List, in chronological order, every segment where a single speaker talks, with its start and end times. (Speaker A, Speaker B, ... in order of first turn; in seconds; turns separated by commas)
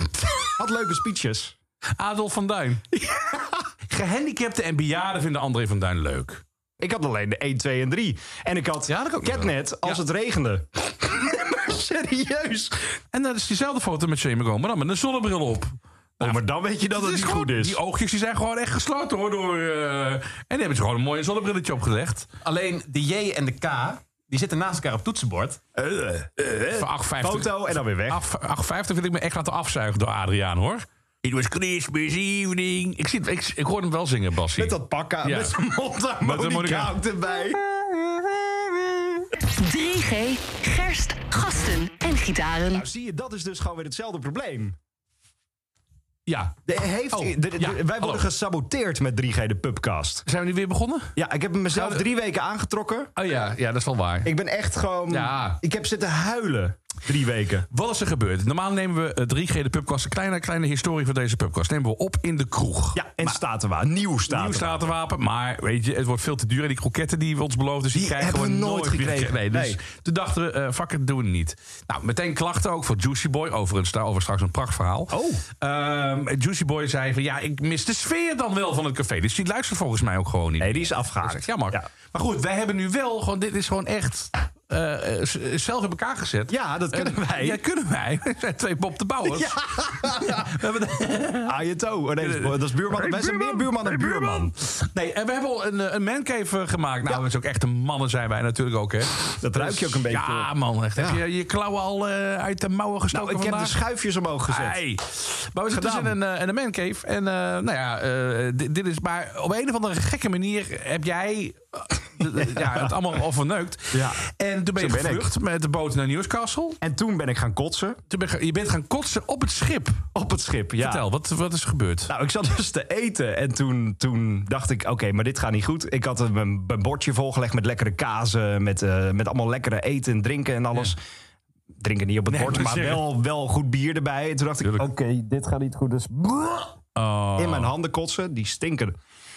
Speaker A: 0.4-1.6, Speaker B: 2.0-2.8, Speaker A: 2.9-3.6, Speaker B: 3.9-6.4, Speaker A: 6.8-12.9, Speaker B: 8.9-10.0, Speaker B: 13.1-22.3, Speaker A: 16.2-17.8, Speaker C: 22.4-25.6, Speaker A: 25.8-28.2, Speaker B: 26.7-30.9, Speaker C: 31.2-32.5, Speaker B: 31.8-35.5, Speaker A: 34.5-39.3, Speaker B: 36.2-36.9, Speaker D: 39.4-42.8, Speaker A: 42.7-44.8, Speaker B: 46.3-46.6, Speaker A: 46.6-50.2, Speaker B: 47.1-48.3, Speaker B: 50.2-51.2, Speaker A: 51.1-53.1, Speaker B: 51.7-52.0, Speaker B: 53.1-54.3, Speaker A: 54.2-57.7, Speaker B: 55.1-55.6, Speaker B: 57.7-63.4, Speaker A: 62.9-64.8, Speaker B: 64.3-91.5, Speaker A: 67.9-69.8, Speaker A: 75.1-75.4, Speaker A: 80.6-81.9, Speaker A: 86.5-87.6, Speaker A: 89.2-90.6, Speaker A: 91.5-94.5, Speaker B: 92.2-103.8, Speaker A: 99.4-101.2, Speaker A: 103.1-104.8, Speaker B: 104.5-116.8, Speaker A: 105.7-106.2, Speaker A: 112.4-112.9, Speaker A: 113.9-114.2, Speaker A: 114.8-115.3, Speaker A: 116.8-118.0, Speaker B: 118.1-120.1, Speaker A: 120.1-121.0, Speaker B: 120.8-122.1, Speaker A: 122.1-131.0, Speaker A: 131.8-136.8, Speaker B: 132.3-133.1, Speaker B: 136.9-137.7, Speaker A: 137.3-138.9